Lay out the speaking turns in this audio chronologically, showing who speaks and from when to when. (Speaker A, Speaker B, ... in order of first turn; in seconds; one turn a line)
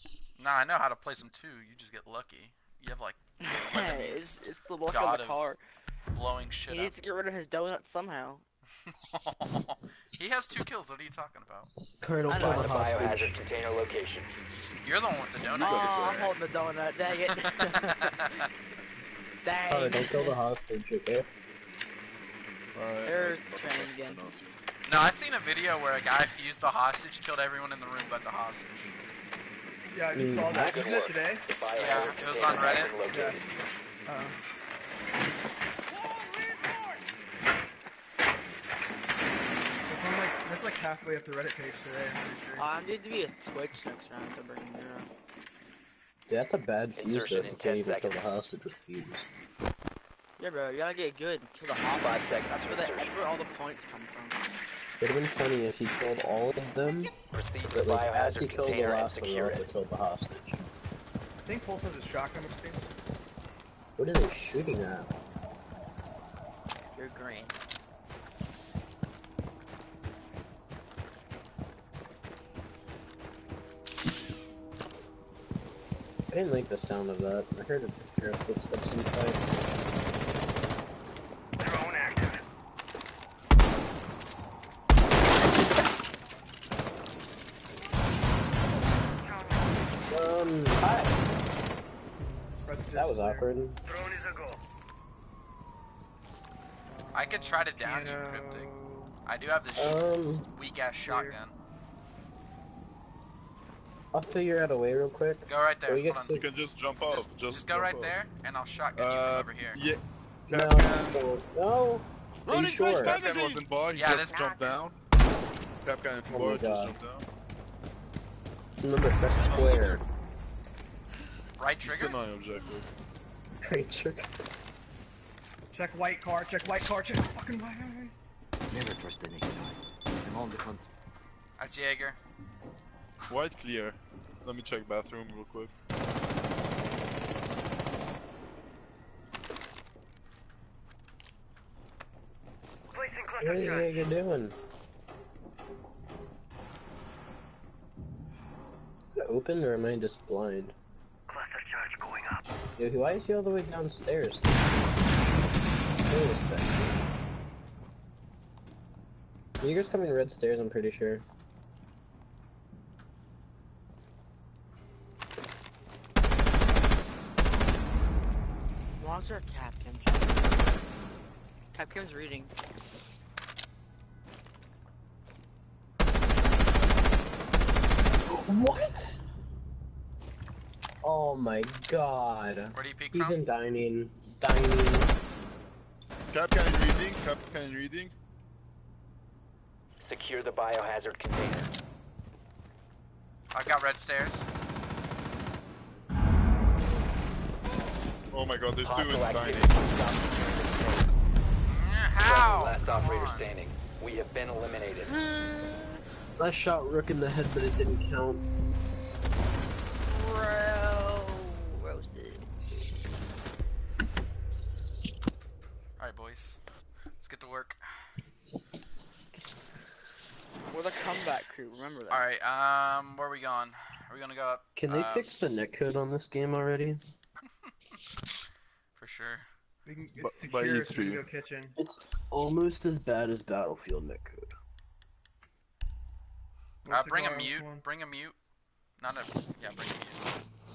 Speaker A: 0.4-5.4
Speaker B: 3.4-5.6
Speaker A: 6.1-7.0
Speaker B: 6.7-8.4
Speaker A: 8.9-11.7
Speaker C: 12.0-13.3
Speaker B: 12.3-13.1
Speaker D: 12.3-14.3
Speaker A: 14.8-16.3
Speaker E: 15.5-16.3
Speaker B: 15.5-18.3
Speaker A: 17.5-18.4
Speaker B: 19.4-20.4
Speaker C: 19.7-21.3
Speaker E: 22.8-24.6
Speaker B: 23.0-24.3
Speaker A: 24.9-28.9
Speaker F: 29.9-31.5
Speaker C: 30.1-30.9
Speaker D: 30.7-33.5
Speaker A: 31.8-33.0
Speaker F: 33.1-33.5
Speaker F: 34.1-34.4
Speaker F: 39.9-42.7
Speaker B: 42.6-45.1
Speaker C: 46.3-49.3
Speaker D: 47.0-48.2
Speaker B: 50.4-54.5
Speaker D: 52.0-53.2
Speaker C: 55.0-57.1
Speaker D: 57.3-59.7
Speaker C: 57.7-60.6
Speaker F: 61.5-62.9
Speaker C: 64.0-65.1
Speaker B: 67.0-67.6
Speaker C: 76.3-79.5
Speaker G: 81.6-82.4
Speaker G: 89.1-90.0
Speaker C: 90.1-91.2
Speaker F: 92.6-93.5
Speaker C: 92.9-93.8
Speaker G: 93.8-94.6
Speaker F: 96.9-99.2
Speaker A: 97.2-98.7
Speaker A: 99.3-101.5
Speaker C: 99.8-100.5
Speaker F: 101.0-101.4
Speaker C: 104.1-106.5
Speaker A: 105.5-106.4
Speaker E: 106.3-108.2
Speaker A: 107.1-109.8
Speaker E: 109.0-111.2
Speaker C: 110.5-113.3
Speaker E: 112.5-115.0
Speaker H: 113.0-113.7
Speaker A: 113.9-114.3
Speaker G: 114.2-114.8
Speaker E: 115.8-117.3
Speaker C: 116.3-117.0
Speaker C: 118.8-120.0
Speaker E: 119.4-120.0
Speaker A: 121.6-122.2
Speaker E: 121.8-122.9
Speaker C: 123.6-124.3
Speaker F: 125.7-128.1
Speaker H: 128.7-130.9
Speaker A: 131.6-132.2
Speaker E: 133.3-135.7
Speaker G: 142.9-144.1
Speaker C: 143.4-144.6
Speaker C: 149.2-150.8
Speaker G: 151.3-152.5
Speaker C: 152.8-154.8
Speaker C: 156.1-157.0
Speaker C: 159.6-161.2
Speaker B: 169.0-170.7
Speaker B: 171.7-172.5
Speaker C: 178.3-179.1
Speaker C: 181.0-185.1
Speaker A: 182.7-183.4
Speaker E: 186.3-188.1
Speaker D: 190.0-191.7
Speaker A: 193.5-194.5
Speaker E: 198.3-199.8
Speaker D: 198.8-201.1
Speaker A: 201.7-203.5
Speaker D: 202.2-205.1
Speaker B: 205.1-206.0
Speaker C: 206.4-208.5
Speaker B: 210.1-212.5
Speaker A: 216.0-216.6
Speaker A: 217.2-217.8
Speaker B: 220.7-222.3
Speaker A: 222.1-225.3
Speaker C: 224.8-227.0
Speaker A: 229.0-229.5
Speaker F: 229.8-231.8
Speaker E: 230.2-231.3
Speaker C: 231.8-234.5
Speaker F: 236.8-237.8
Speaker A: 236.9-238.4
Speaker A: 239.0-240.2